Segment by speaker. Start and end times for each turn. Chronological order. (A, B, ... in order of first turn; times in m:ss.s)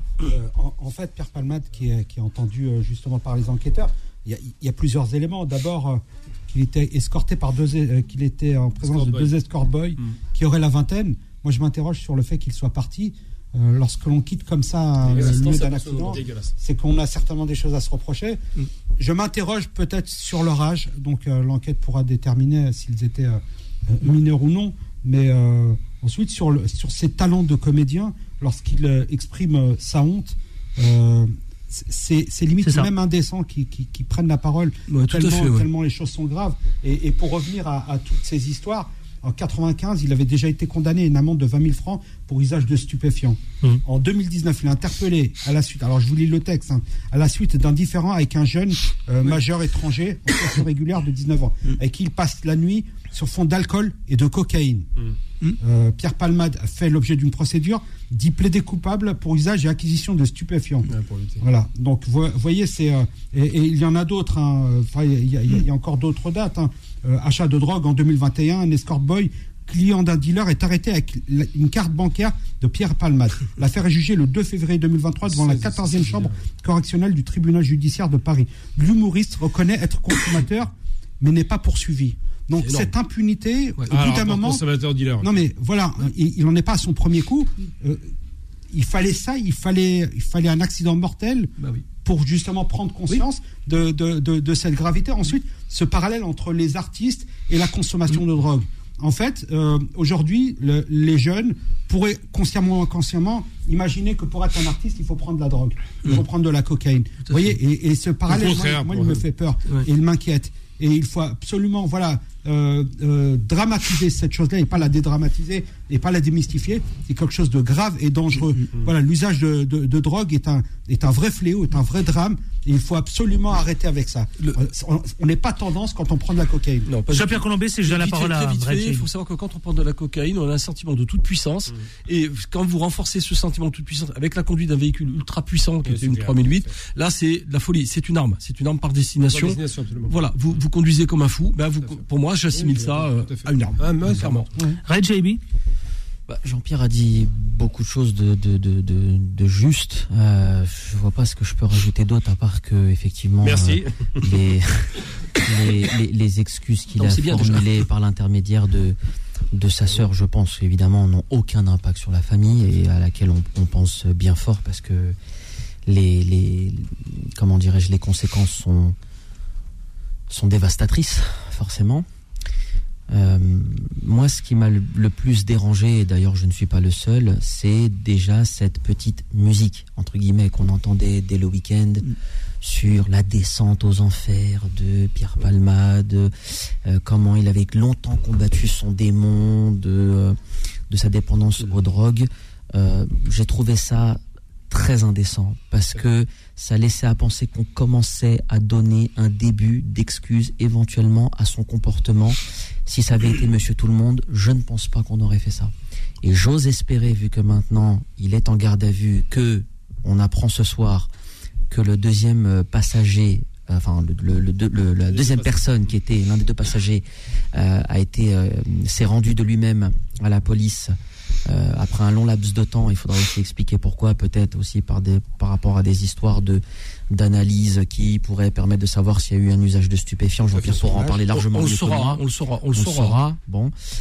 0:00.2-0:18.4 A
0:08.9-0:09.3 B
0:15.0-0:16.2 C
0:15.0-0:16.5 B
0:19.0-0:54.9 A
0:32.6-0:32.9 D
0:34.9-0:35.7 C
0:55.6-1:24.6 A
1:00.9-1:01.4 B
1:15.2-1:16.4 B
1:22.6-1:22.9 C
1:23.9-1:25.4 B
1:25.2-1:28.1 A
1:28.7-1:31.5 A
1:31.6-1:31.8 C
1:32.0-2:06.9 A
1:47.3-1:47.5 C
1:48.3-1:49.2 B
2:06.9-2:24.5 C
2:07.1-2:09.1 D
2:15.8-2:16.8 B
2:19.2-2:20.2 B
2:21.8-2:24.5 B
2:24.8-2:25.4 D
2:26.3-2:39.0 E
2:33.4-2:34.3 B
2:37.0-2:37.8 C
2:39.5-2:45.2 E
2:45.9-2:49.0 E
2:50.3-2:52.1 E
2:53.1-3:06.3 E
3:06.8-3:10.4 E
3:10.9-3:31.1 E
3:31.7-3:40.9 E
3:35.0-3:36.0 B
3:41.5-3:53.7 E
3:50.5-3:51.1 B
3:51.3-3:53.2 C